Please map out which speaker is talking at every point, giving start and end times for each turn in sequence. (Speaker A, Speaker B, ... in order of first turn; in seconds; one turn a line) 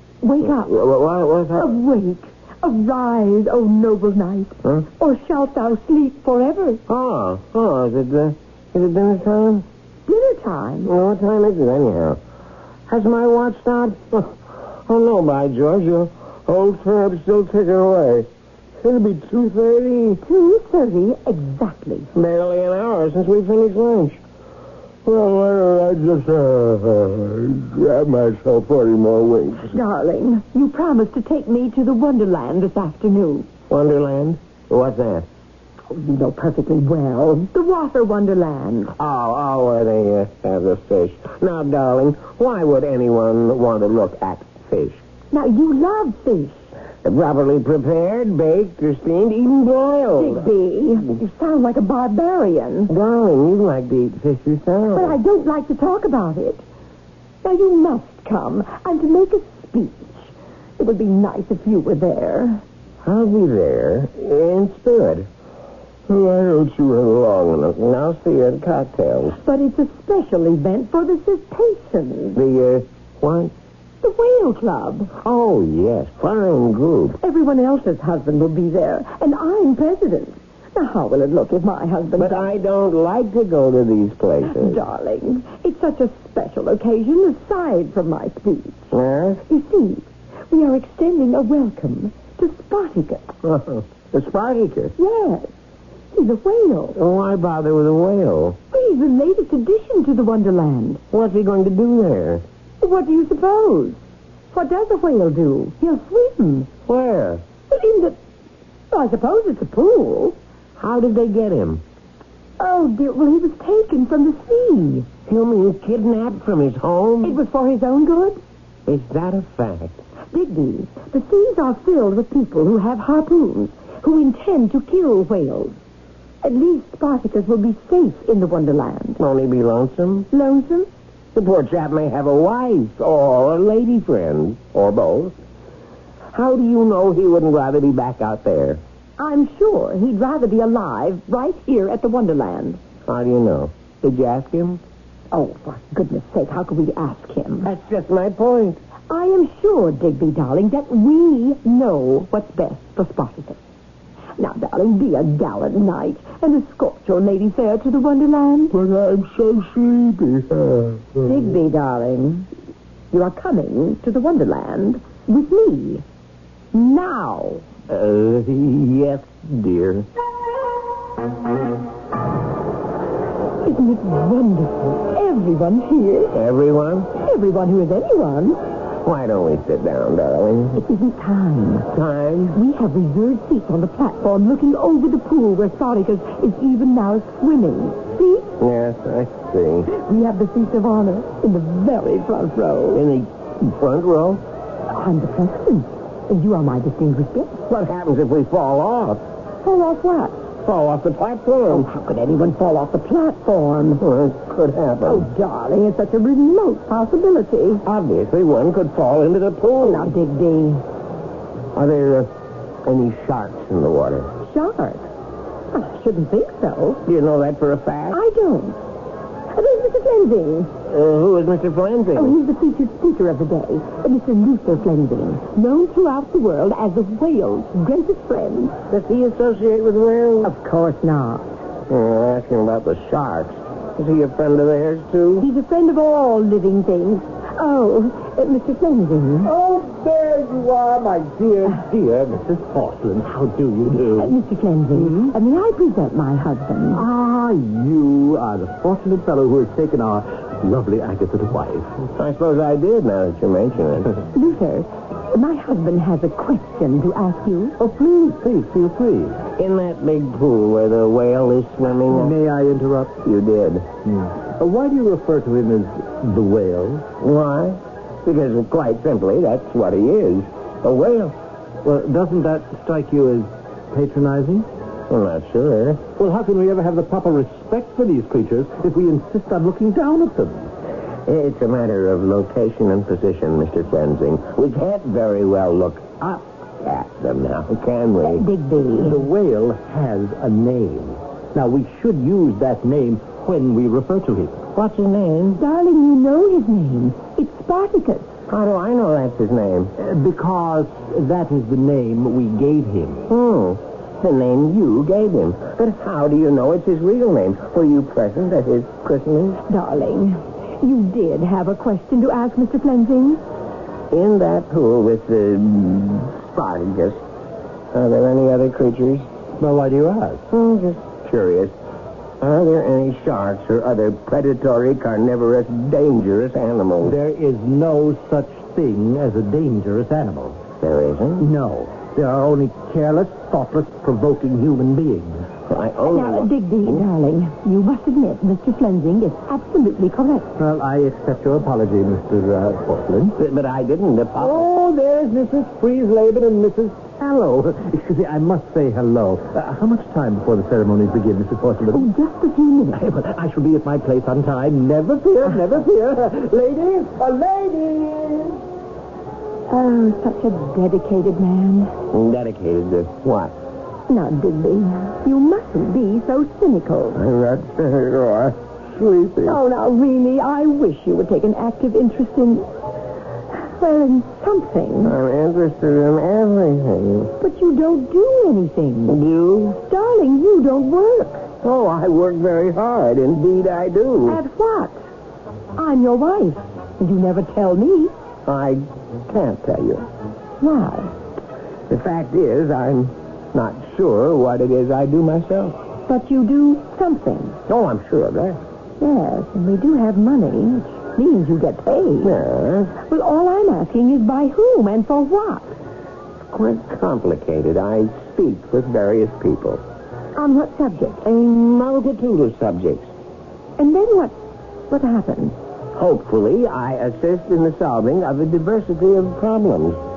Speaker A: 0.2-0.7
Speaker B: 0.6-1.7
Speaker A: 1.6-6.8
Speaker B: 6.9-9.6
Speaker A: 10.1-10.9
Speaker B: 10.8-12.2
Speaker B: 12.9-18.3
Speaker B: 18.8-20.2
Speaker A: 20.2-22.1
Speaker B: 22.1-24.2
Speaker B: 25.0-29.7
Speaker A: 29.7-33.5
Speaker B: 33.7-35.3
Speaker A: 35.9-38.9
Speaker B: 39.0-45.0
Speaker A: 45.3-46.7
Speaker B: 47.0-50.5
Speaker A: 50.1-52.9
Speaker B: 52.9-55.1
Speaker A: 54.9-56.6
Speaker A: 57.4-62.6
Speaker B: 63.0-65.3
Speaker B: 66.1-69.4
Speaker A: 69.3-72.4
Speaker B: 72.3-73.5
Speaker A: 74.0-75.1
Speaker B: 75.2-77.2
Speaker A: 77.2-82.5
Speaker B: 82.2-84.8
Speaker A: 84.4-88.9
Speaker B: 88.9-89.4
Speaker A: 89.5-93.4
Speaker B: 93.4-94.9
Speaker A: 95.0-95.5
Speaker A: 96.1-97.0
Speaker B: 97.0-98.6
Speaker A: 98.7-101.0
Speaker B: 101.1-102.4
Speaker A: 102.8-104.0
Speaker A: 104.5-106.7
Speaker B: 106.9-107.4
Speaker A: 107.7-108.2
Speaker A: 108.9-110.3
Speaker B: 110.8-111.8
Speaker A: 112.6-115.1
Speaker B: 115.3-117.4
Speaker A: 117.2-118.4
Speaker B: 118.8-120.0
Speaker A: 120.3-125.8
Speaker A: 126.4-129.2
Speaker B: 129.2-130.3
Speaker A: 130.3-130.9
Speaker B: 131.3-135.3
Speaker B: 136.3-138.8
Speaker A: 139.2-142.8
Speaker B: 143.1-144.8
Speaker A: 145.3-147.7
Speaker B: 147.6-148.8
Speaker A: 149.1-153.6
Speaker A: 154.4-158.8
Speaker B: 158.9-160.6
Speaker A: 161.2-162.5
Speaker A: 163.1-166.0
Speaker A: 166.7-167.6
Speaker B: 167.9-170.1
Speaker A: 173.6-176.3
Speaker B: 176.3-177.1
Speaker A: 177.2-178.6
Speaker B: 179.0-180.8
Speaker A: 180.8-181.9
Speaker B: 181.9-182.6
Speaker A: 182.5-188.5
Speaker B: 188.6-189.9
Speaker A: 189.9-193.0
Speaker B: 192.9-194.4
Speaker A: 194.9-197.6
Speaker B: 197.7-199.2
Speaker A: 199.6-200.4
Speaker B: 200.6-201.9
Speaker A: 201.7-204.0
Speaker B: 204.0-205.2
Speaker A: 205.0-207.8
Speaker B: 207.8-210.1
Speaker A: 209.8-210.8
Speaker B: 211.7-212.3
Speaker B: 212.8-214.3
Speaker A: 214.4-215.1
Speaker A: 215.7-217.0
Speaker B: 217.0-218.2
Speaker A: 218.1-218.8
Speaker A: 219.5-220.7
Speaker B: 220.8-222.4
Speaker A: 222.2-228.7
Speaker B: 228.9-230.5
Speaker A: 230.4-231.6
Speaker B: 231.9-235.5
Speaker A: 235.4-239.5
Speaker C: 239.4-244.3
Speaker A: 244.2-247.0
Speaker C: 244.9-245.3
Speaker C: 246.9-252.0
Speaker B: 252.1-254.2
Speaker A: 254.3-257.8
Speaker C: 257.8-259.4
Speaker B: 259.6-262.3
Speaker C: 262.0-263.2
Speaker B: 263.2-263.9
Speaker C: 264.1-267.0
Speaker B: 267.2-271.4
Speaker C: 271.8-274.6
Speaker B: 275.1-276.1
Speaker C: 276.1-280.7
Speaker B: 281.2-288.4
Speaker A: 288.2-289.2
Speaker C: 288.9-294.6
Speaker B: 294.7-295.6
Speaker A: 295.6-298.3
Speaker B: 298.5-299.9
Speaker C: 300.0-303.3
Speaker B: 303.3-309.6
Speaker A: 309.7-313.4
Speaker B: 314.1-317.2
Speaker B: 317.9-319.3
Speaker C: 319.6-320.5
Speaker B: 320.5-321.7
Speaker B: 322.4-327.2
Speaker C: 327.0-330.6
Speaker B: 330.8-331.4
Speaker C: 331.4-335.5
Speaker B: 335.7-337.0
Speaker A: 336.0-340.5
Speaker C: 340.6-343.3
Speaker B: 343.4-344.6
Speaker C: 344.4-352.1
Speaker A: 351.9-353.0
Speaker C: 352.9-358.6
Speaker A: 359.7-361.9
Speaker B: 362.1-363.5
Speaker A: 364.1-367.2
Speaker B: 367.1-369.6
Speaker A: 369.4-372.7
Speaker A: 373.5-375.1
Speaker B: 375.0-377.3
Speaker A: 377.4-379.2
Speaker B: 379.1-379.8
Speaker A: 379.8-381.4
Speaker B: 381.6-384.4
Speaker A: 384.2-385.0
Speaker A: 385.8-388.1
Speaker B: 388.4-390.1
Speaker A: 390.6-391.1
Speaker B: 391.9-395.8
Speaker A: 396.1-397.6
Speaker B: 397.7-398.6
Speaker A: 399.0-402.4
Speaker B: 402.2-402.9
Speaker A: 402.9-405.7
Speaker B: 406.5-409.8
Speaker A: 410.4-411.2
Speaker B: 411.2-413.1
Speaker A: 413.8-414.3
Speaker A: 414.9-415.6
Speaker B: 415.9-420.0